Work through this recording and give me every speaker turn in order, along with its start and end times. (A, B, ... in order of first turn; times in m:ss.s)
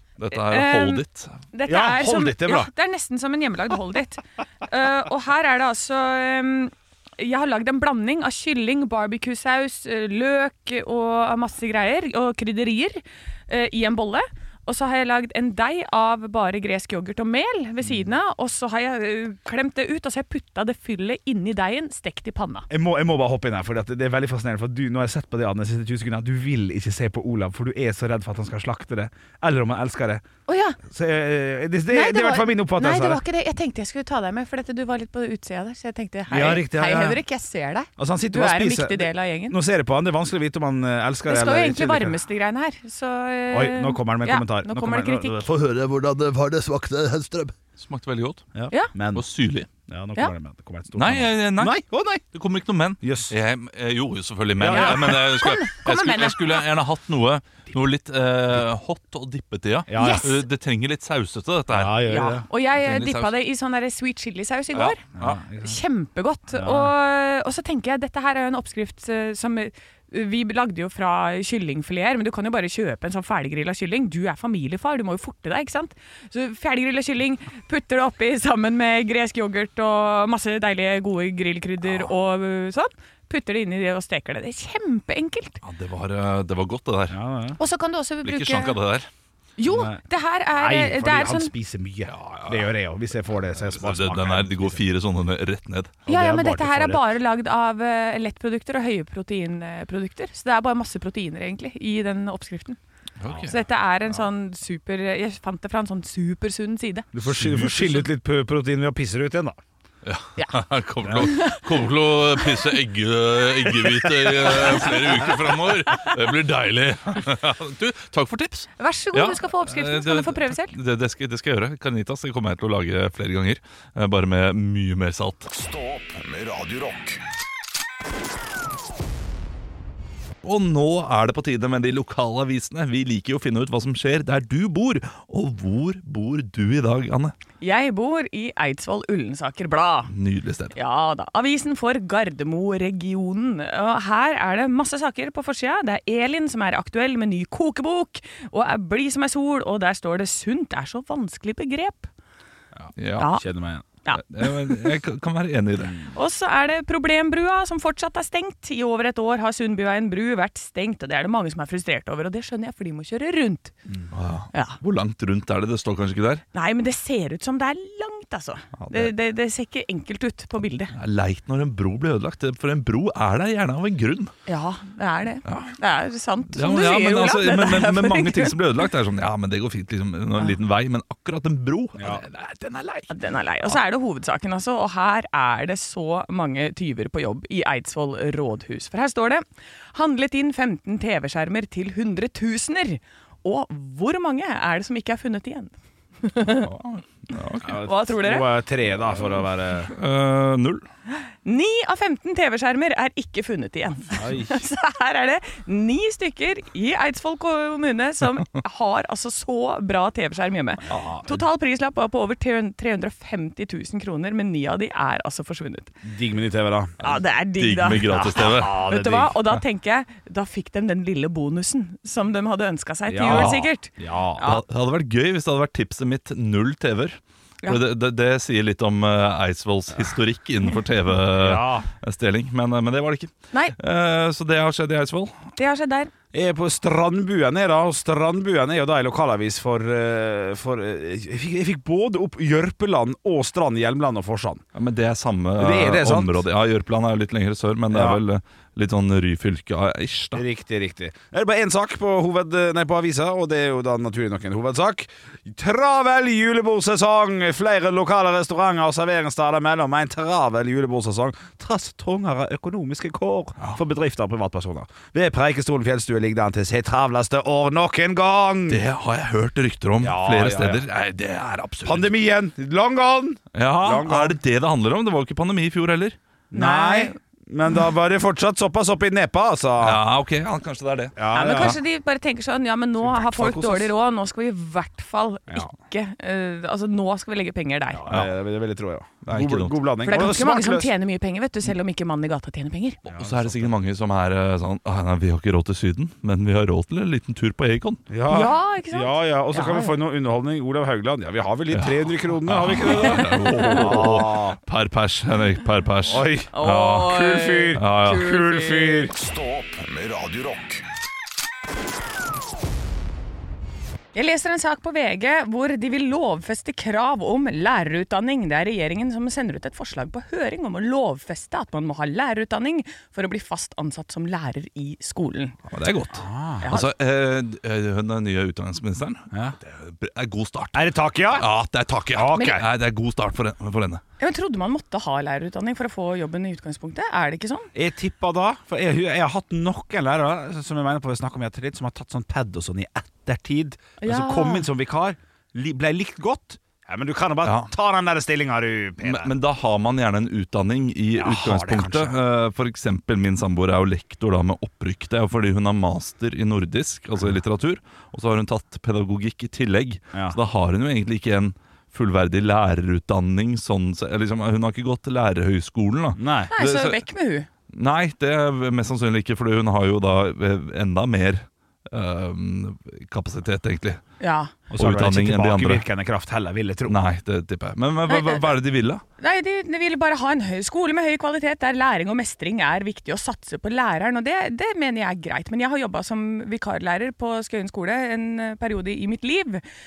0:00.2-0:01.4 A
0:00.3-0:22.7 B
0:01.7-0:02.7 C
0:22.7-0:30.2 C
0:30.5-0:30.8 B
0:30.8-0:33.2 C
0:31.9-0:39.6 B
0:36.3-0:37.2 C
0:38.0-0:42.2 C
0:41.3-0:45.5 B
0:43.5-0:47.6 C
0:47.8-0:48.5 A
0:48.6-0:49.2 C
0:49.1-0:49.7 A
0:49.9-0:52.2 C
0:51.0-1:02.1 A
0:53.0-0:53.3 C
0:54.6-0:55.2 C
0:54.7-0:56.6 B
0:59.9-1:00.3 C
1:00.0-1:00.4 B
1:01.7-1:02.4 C
1:02.1-1:05.0 B
1:02.8-1:03.3 A
1:04.7-1:05.4 A
1:05.2-1:05.8 C
1:05.6-1:25.6 B
1:06.5-1:06.9 C
1:25.6-1:27.2 A
1:27.1-1:27.6 C
1:27.6-1:28.8 B
1:28.2-1:29.1 A
1:29.6-1:31.5 B
1:29.7-1:30.0 C
1:30.6-1:34.8 C
1:32.1-1:32.7 A
1:33.6-1:36.0 A
1:36.1-1:37.1 C
1:36.1-1:42.8 B
1:43.2-1:43.6 A
1:43.5-1:47.1 B
1:47.1-1:49.6 C
1:47.2-1:48.1 A
1:50.0-2:05.5 A
1:51.2-1:51.6 B
1:58.8-2:00.8 B
2:05.5-2:07.2 D
2:10.4-2:17.4 A
2:17.6-2:20.1 B
2:20.1-2:20.8 A
2:20.8-2:32.1 B
2:32.8-2:33.8 C
2:33.0-2:33.3 A
2:33.2-2:33.5 B
2:34.0-2:34.8 B
2:34.2-2:36.0 A
2:35.8-2:36.1 C
2:36.1-2:43.7 B
2:44.1-2:46.4 A
2:46.5-2:50.9 B
2:48.8-2:49.1 A
2:50.9-2:54.3 A
2:54.5-2:58.6 B
2:55.4-2:55.8 A
2:56.5-3:03.1 A
3:02.0-3:02.2 C
3:03.1-3:16.7 B
3:16.5-3:17.8 A
3:17.6-3:19.9 C
3:17.8-3:18.5 B
3:19.9-3:20.8 A
3:21.4-3:35.9 B
3:24.2-3:24.6 C
3:30.9-3:31.4 C
3:36.0-3:37.1 C
3:37.0-3:44.6 B
3:37.6-3:38.8 A
3:37.9-3:39.4 C
3:43.1-3:44.4 C
3:43.3-3:43.6 A
3:44.4-3:55.5 A
3:51.3-3:51.9 C
3:55.6-3:56.1 B
3:56.3-4:04.6 C
4:04.8-4:10.4 A
4:05.6-4:06.4 C
4:07.9-4:08.2 C
4:10.4-4:28.8 C
4:28.7-4:32.1 A
4:30.0-4:30.8 C
4:31.8-4:34.4 C
4:33.6-4:36.2 A
4:36.5-4:40.0 C
4:36.5-4:37.2 B
4:39.8-4:41.8 A
4:41.2-4:41.8 C
4:41.3-4:48.1 B
4:43.1-4:43.9 C
4:48.0-4:50.9 C
4:49.2-4:49.8 A
4:50.0-4:53.0 B
4:53.1-4:53.8 C
4:53.1-4:58.0 A
4:58.1-5:04.6 C
4:58.3-4:59.9 B
5:01.7-5:07.2 A
5:02.9-5:03.9 B
5:06.1-5:09.1 C
5:06.5-5:09.1 B
5:07.7-5:08.4 A
5:09.2-5:10.8 D
5:14.1-5:25.6 B
5:25.7-5:34.0 A
5:26.2-5:26.7 C
5:26.6-5:26.9 B
5:30.7-5:31.5 C
5:32.1-5:32.6 C
5:34.2-5:37.7 B
5:37.8-5:49.3 C
5:44.0-5:44.7 B
5:47.4-5:47.7 A
5:49.0-6:07.0 A
5:51.2-5:52.2 C
6:06.2-6:06.5 C
6:06.5-6:07.5 B
6:07.7-6:14.0 A
6:14.2-6:14.5 B
6:14.7-6:17.0 C
6:14.8-6:15.8 A
6:16.9-6:19.0 A
6:18.1-6:18.5 B
6:19.2-6:29.6 B